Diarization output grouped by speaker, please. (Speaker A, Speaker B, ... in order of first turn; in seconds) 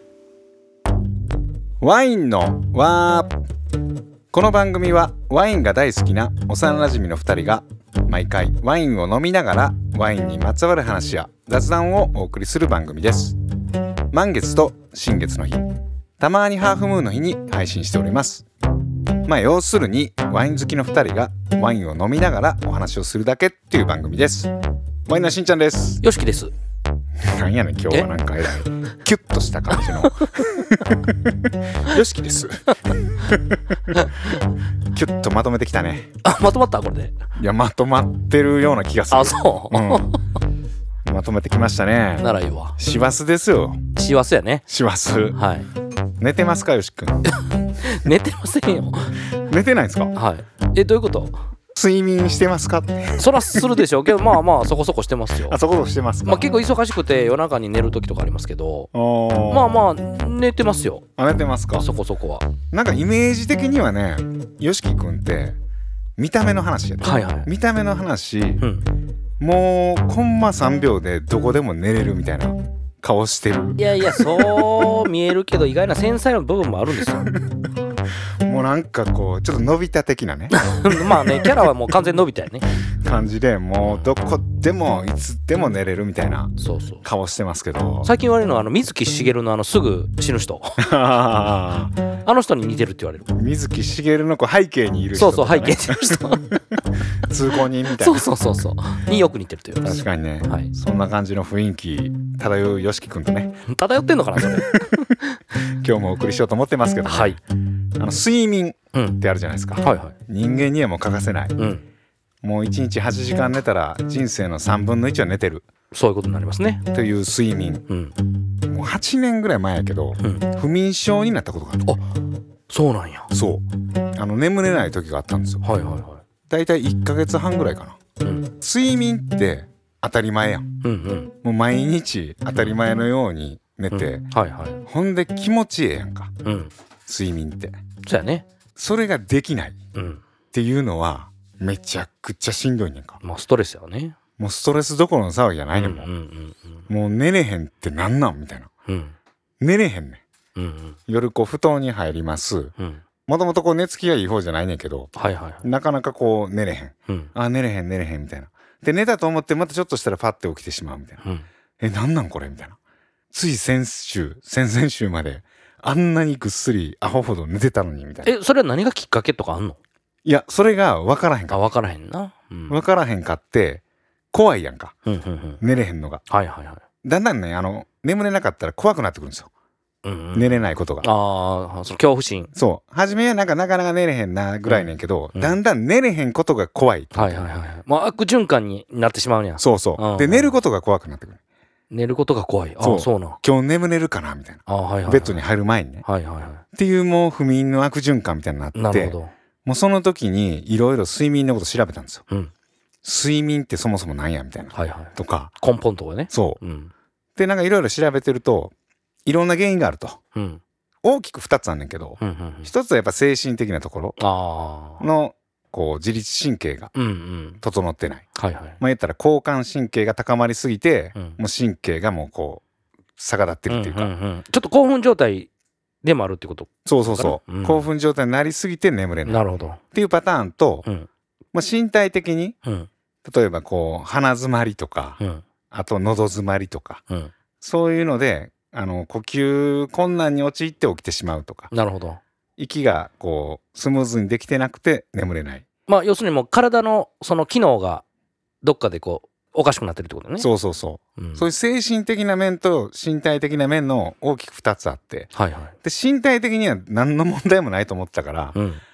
Speaker A: 1.8-3.3, 4.3-13.4, 14.1-18.4, 19.2-24.5, 25.1-26.0, 27.2-34.1, 34.9-36.1, 37.4-40.1, 41.0-43.8, 44.7-45.4, 46.2-47.3, 49.4-50.1, 51.7-53.8, 55.4-56.5, 58.9-59.8, 61.2-61.9, 62.7-65.6, 66.2-68.7, 69.4-74.4, 78.4-81.7, 83.0-88.1, 90.8-91.9, 93.3-98.3, 99.8-103.6, 104.5-105.1, 105.6-107.4, 108.0-111.7, 112.4-115.7, 116.9-117.8, 118.7-122.0, 123.3-125.6, 126.5-128.0, 128.6-130.7, 131.4-134.3, 134.8-136.3, 137.1-137.8, 138.8-139.8, 140.5-143.2, 144.4-146.1, 146.9-148.7, 149.6-150.2, 151.1-152.7, 153.3-161.2, 161.8-162.8, 163.3-168.3, 170.2-171.6, 172.7-174.9, 175.6-176.2, 177.0-179.5, 180.3-181.1, 182.5-187.5, 189.6-191.4, 192.8-196.0, 196.7-202.2, 203.0-205.5, 206.3-206.6, 207.4-208.7, 209.2-210.2, 211.0-214.2, 215.0-216.9, 217.6-218.3, 218.8-222.6, 223.2-224.1, 226.8-230.9, 231.5-232.6, 233.2-235.2, 235.7-237.0, 237.6-241.7, 242.6-245.6, 250.4-255.3, 255.8-258.6
Speaker B: 26.0-26.5, 29.8-30.2, 33.9-34.3, 36.2-37.1, 39.1-40.2, 42.2-42.8, 43.9-44.6, 45.4-45.7, 47.3-49.2, 50.1-51.4, 53.2-55.6, 56.2-58.9, 59.5-61.0, 61.8-62.5, 67.0-67.5, 68.6-68.8, 73.8-77.3, 80.5-82.7, 83.8-84.1, 86.6-87.0, 88.0-90.8, 92.2-93.3, 95.1-96.5, 98.0-100.7, 103.7-105.4, 107.0-107.4, 108.9-109.2, 109.8-110.1, 111.6-111.8, 115.9-116.8, 117.9-118.1, 120.2-120.5, 122.7-123.3, 125.6-126.2, 128.2-128.5, 130.8-131.3, 133.9-134.8, 136.4-136.7, 138.0-138.4, 139.9-140.2, 143.2-144.2, 145.7-146.8, 148.9-149.1, 150.5-151.0, 152.8-153.0, 155.2-155.6, 168.2-169.8, 171.5-172.8, 175.1-175.6, 176.3-176.8, 180.0-182.5, 184.6-185.6, 187.1-190.6, 191.9-193.4, 194.7-195.4, 196.0-196.6, 198.7-199.3, 204.7-206.9, 210.3-210.6, 212.2-212.7, 214.2-215.0, 216.9-217.6, 218.3-218.8, 223.7-225.5, 226.0-227.9, 229.2-229.8, 232.6-232.9, 241.7-242.2, 245.9-248.0, 248.6-250.5, 251.2-251.4, 255.3-255.7, 258.5-258.8